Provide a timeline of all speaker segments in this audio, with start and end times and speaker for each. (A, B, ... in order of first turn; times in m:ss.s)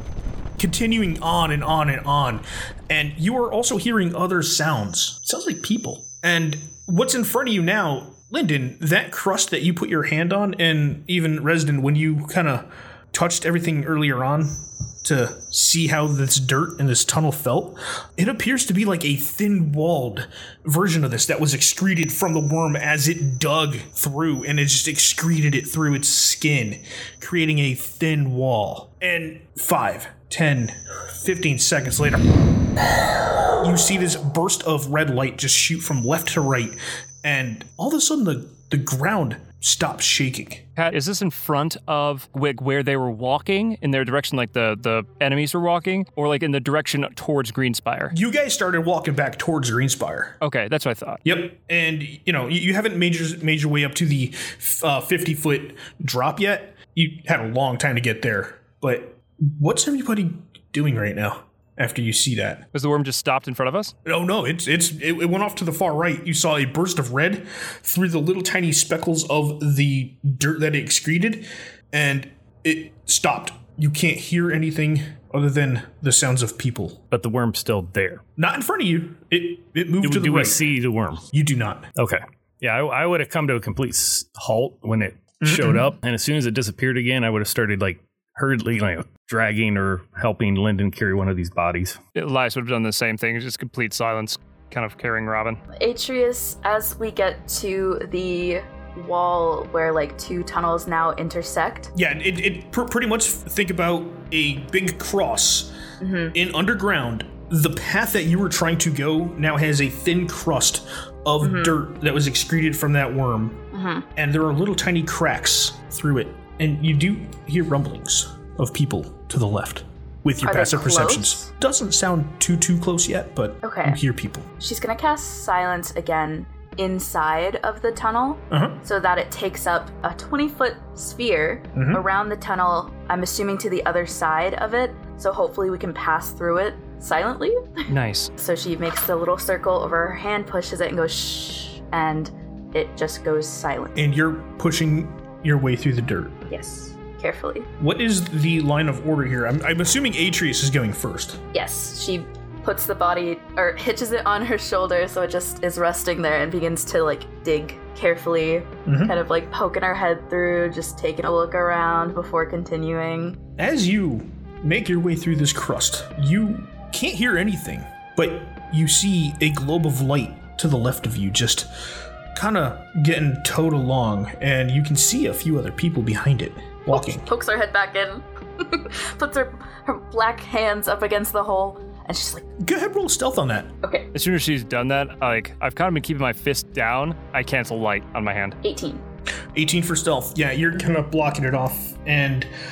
0:00.6-0:32.3 A
0:33.6-0:40.6 A
0:40.8-0:48.1 B
0:48.1-0:50.4 A
0:50.4-0:51.2 B
0:51.2-1:02.6 A
1:02.7-1:03.9 B
1:04.0-1:17.0 A
1:17.1-1:18.2 C
1:18.4-1:20.7 A
1:20.0-1:21.2 C
1:21.3-1:21.9 A
1:22.0-1:32.0 C
1:25.4-1:25.9 A
1:32.1-1:35.6 B
1:35.7-1:41.9 D
1:41.9-1:45.7 A
1:46.0-1:46.3 D
1:46.3-2:04.5 A
1:51.4-1:51.8 D
1:53.7-1:54.0 D
2:00.4-2:01.5 D
2:03.6-2:04.0 D
2:04.6-2:23.9 D
2:08.5-2:08.8 A
2:11.7-2:12.0 A
2:17.9-2:18.3 B
2:23.9-2:26.4 A
2:26.5-2:27.7 D
2:27.8-2:31.4 A
2:31.5-2:43.4 D
2:38.8-2:39.2 A
2:43.6-2:51.7 A
2:52.3-2:57.3 A
2:56.9-3:02.4 D
3:02.6-3:03.7 A
3:03.8-3:04.1 D
3:04.1-3:08.6 B
3:08.6-3:09.0 D
3:09.5-3:12.5 A